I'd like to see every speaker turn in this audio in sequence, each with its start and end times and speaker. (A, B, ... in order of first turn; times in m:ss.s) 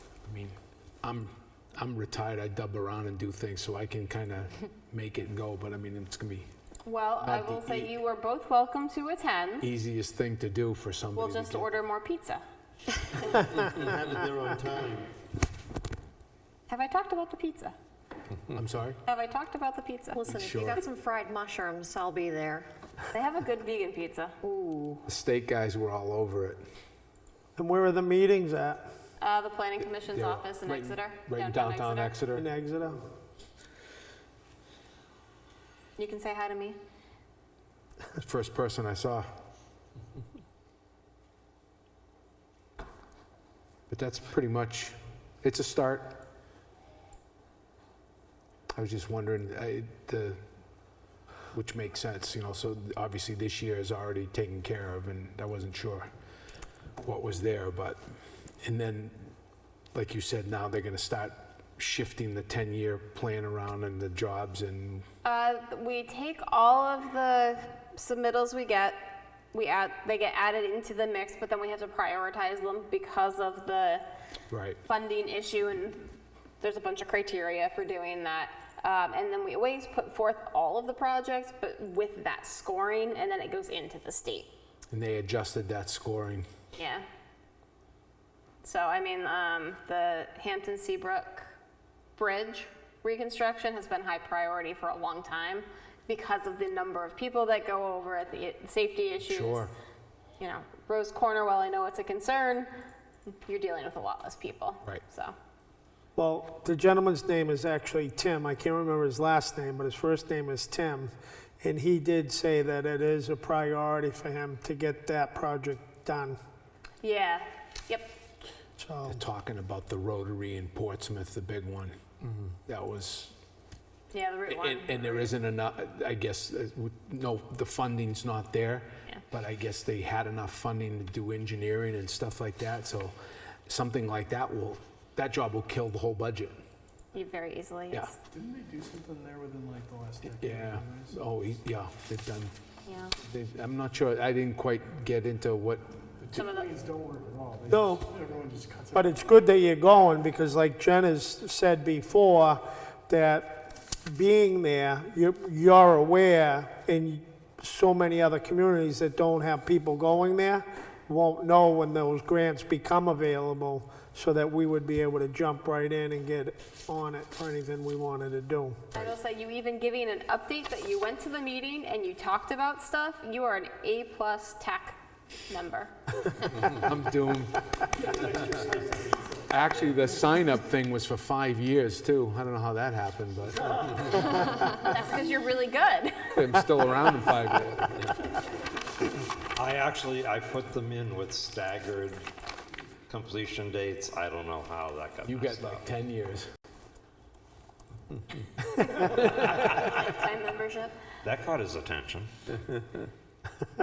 0:00.2-0:06.5 A
0:06.8-0:09.6 B
0:07.2-0:07.9 A
0:09.6-0:11.7 A
0:11.1-0:12.4 B
0:13.1-0:13.6 B
0:13.6-0:15.1 C
0:16.7-0:17.7 B
0:18.5-0:19.0 A
0:19.0-0:20.2 B
0:20.1-0:22.7 D
0:20.3-0:20.8 A
0:23.1-0:24.4 B
0:24.4-0:25.0 D
0:25.0-0:26.6 A
0:27.6-0:28.8 E
0:29.2-0:32.2 B
0:30.1-0:32.5 A
0:32.3-0:33.0 E
0:36.0-0:36.8 B
0:38.2-0:39.3 A
0:43.9-0:46.2 A
0:48.8-0:50.4 A
0:51.5-0:56.1 A
0:57.0-0:58.0 A
0:58.6-0:59.3 A
0:59.9-1:05.0 A
1:05.2-1:14.0 B
1:14.5-1:14.8 A
1:14.8-1:24.5 B
1:24.9-1:26.5 A
1:26.8-1:27.0 B
1:28.6-1:31.5 B
1:32.2-1:39.7 B
1:39.2-1:39.7 A
1:40.4-1:42.7 B
1:43.3-1:45.3 B
1:46.2-1:56.4 E
1:57.0-1:58.1 B
1:58.8-1:59.2 E
1:59.1-2:02.0 A
2:02.7-2:03.3 A
2:04.1-2:05.4 B
2:04.5-2:13.1 A
2:13.7-2:16.6 A
2:17.1-2:18.2 B
2:18.3-2:21.2 F
2:20.3-2:22.5 A
2:22.8-2:23.1 B
2:23.2-2:25.8 A
2:26.2-2:29.3 F
2:26.3-2:26.7 B
2:27.7-2:28.1 E
2:28.9-2:48.9 E
2:48.9-2:56.5 B
2:56.6-2:57.8 A
2:59.5-3:04.2 A
3:04.4-3:06.6 B
3:06.3-3:08.1 A
3:09.4-3:12.2 C
3:13.1-3:15.8 C
3:15.2-3:16.5 A
3:19.7-3:20.9 B
3:21.2-3:22.6 C